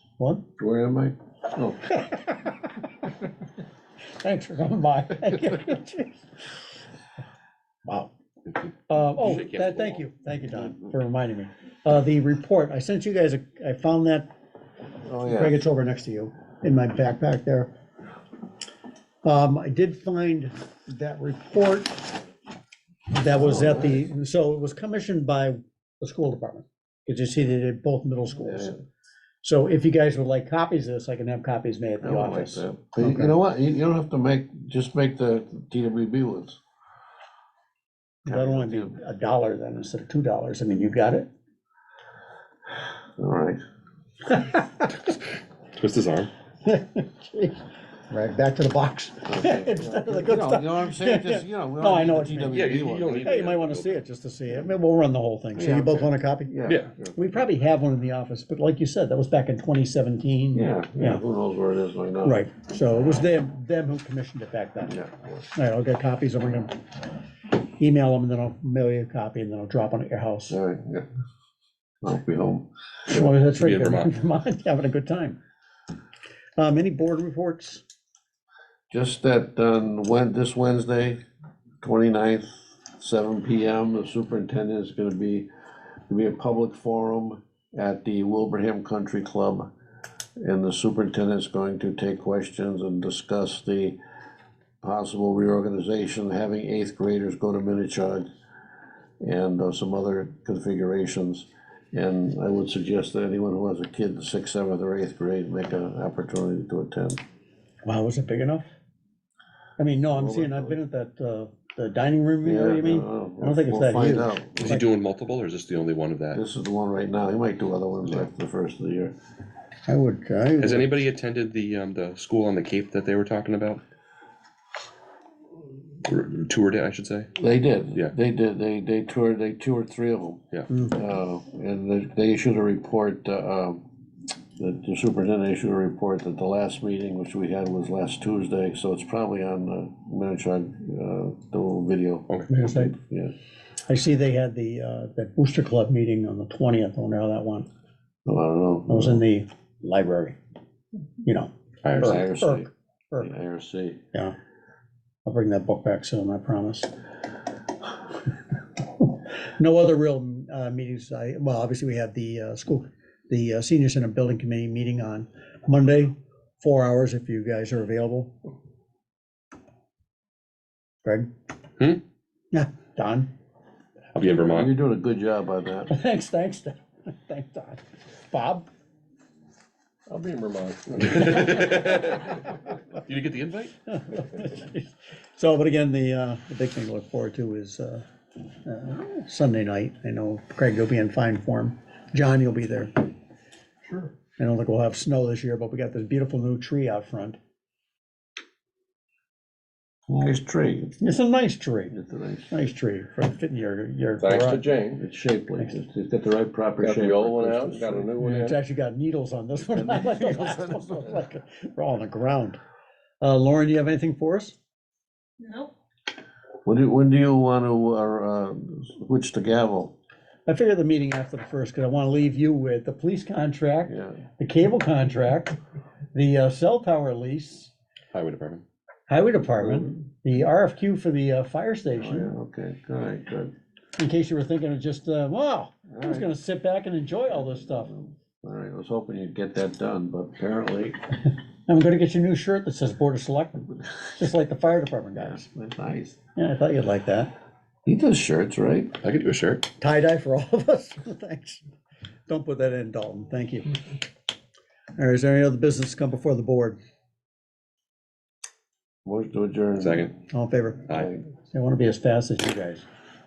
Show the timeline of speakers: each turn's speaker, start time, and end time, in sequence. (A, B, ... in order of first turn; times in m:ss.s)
0:00.2-0:00.5 A
0:00.6-0:01.8 B
0:01.8-0:03.1 A
0:04.2-0:06.6 A
0:08.9-0:14.3 A
0:09.2-0:09.8 C
0:15.0-0:15.6 B
0:15.2-0:17.7 A
0:19.2-0:22.2 A
0:23.1-0:28.8 A
0:23.3-0:24.0 B
0:28.4-0:28.8 B
0:29.4-0:33.4 A
0:32.0-0:36.6 B
0:38.2-0:39.0 B
0:38.3-0:41.3 A
0:43.2-0:43.6 B
0:44.3-0:44.6 A
0:45.7-0:46.3 D
0:46.6-0:47.6 A
0:48.1-0:56.6 A
0:49.3-0:53.4 B
0:52.5-0:54.0 D
0:55.6-0:57.4 B
0:57.2-1:01.2 A
1:00.5-1:02.5 B
1:02.2-1:06.8 A
1:04.9-1:05.3 B
1:07.7-1:10.6 A
1:10.5-1:11.1 B
1:12.0-1:13.3 B
1:13.1-1:15.4 A
1:13.5-1:14.1 D
1:16.6-1:17.8 A
1:18.9-1:21.2 B
1:21.8-1:25.5 B
1:26.1-1:29.7 B
1:30.4-1:34.0 B
1:34.8-1:38.3 B
1:39.2-1:47.2 B
1:47.8-1:48.7 A
1:49.8-1:54.8 A
1:50.1-1:50.8 B
1:52.4-1:54.8 B
1:54.6-1:56.4 D
1:56.3-1:59.1 B
1:59.9-2:00.9 A
2:00.6-2:03.8 D
2:06.0-2:07.3 D
2:07.4-2:13.8 B
2:10.7-2:11.0 A
2:14.6-2:23.3 B
2:22.5-2:22.9 A
2:23.9-2:27.7 A
2:28.2-2:29.2 B
2:28.9-2:30.4 A
2:31.2-2:33.3 A
2:31.8-2:32.2 D
2:31.9-2:34.0 B
2:35.3-2:36.9 A
2:39.0-2:48.3 A
2:52.5-2:53.3 A
2:54.1-2:54.7 D
2:54.4-2:55.9 B
2:55.9-2:58.6 A
3:00.1-3:01.6 B
3:01.1-3:02.4 D
3:03.0-3:03.7 D
3:03.9-3:08.0 A
3:08.6-3:13.1 A
3:14.4-3:17.4 A
3:20.1-3:21.0 B
3:21.0-3:22.0 A
3:21.9-3:22.5 B
3:22.5-3:24.6 A
3:24.2-3:25.0 C
3:24.8-3:28.1 B
3:26.8-3:28.6 C
3:28.2-3:32.6 A
3:29.6-3:31.1 B
3:33.2-3:34.6 A
3:36.6-3:40.0 B
3:40.5-3:45.6 A
3:43.9-3:44.2 B
3:46.1-3:47.7 A
3:48.1-3:48.6 D
3:49.1-3:52.4 A
3:49.6-3:49.9 B
3:52.0-3:53.5 B
3:54.0-3:57.9 A
3:55.9-3:56.3 B
3:57.3-4:01.0 B
4:01.7-4:05.5 A
4:05.2-4:06.2 B
4:06.4-4:07.3 A
4:07.8-4:09.0 B
4:09.0-4:09.7 D
4:09.8-4:11.6 A
4:12.3-4:13.8 A
4:15.0-4:16.8 A
4:19.0-4:20.1 B
4:19.8-4:20.1 D
4:20.3-4:22.8 A
4:20.9-4:21.2 B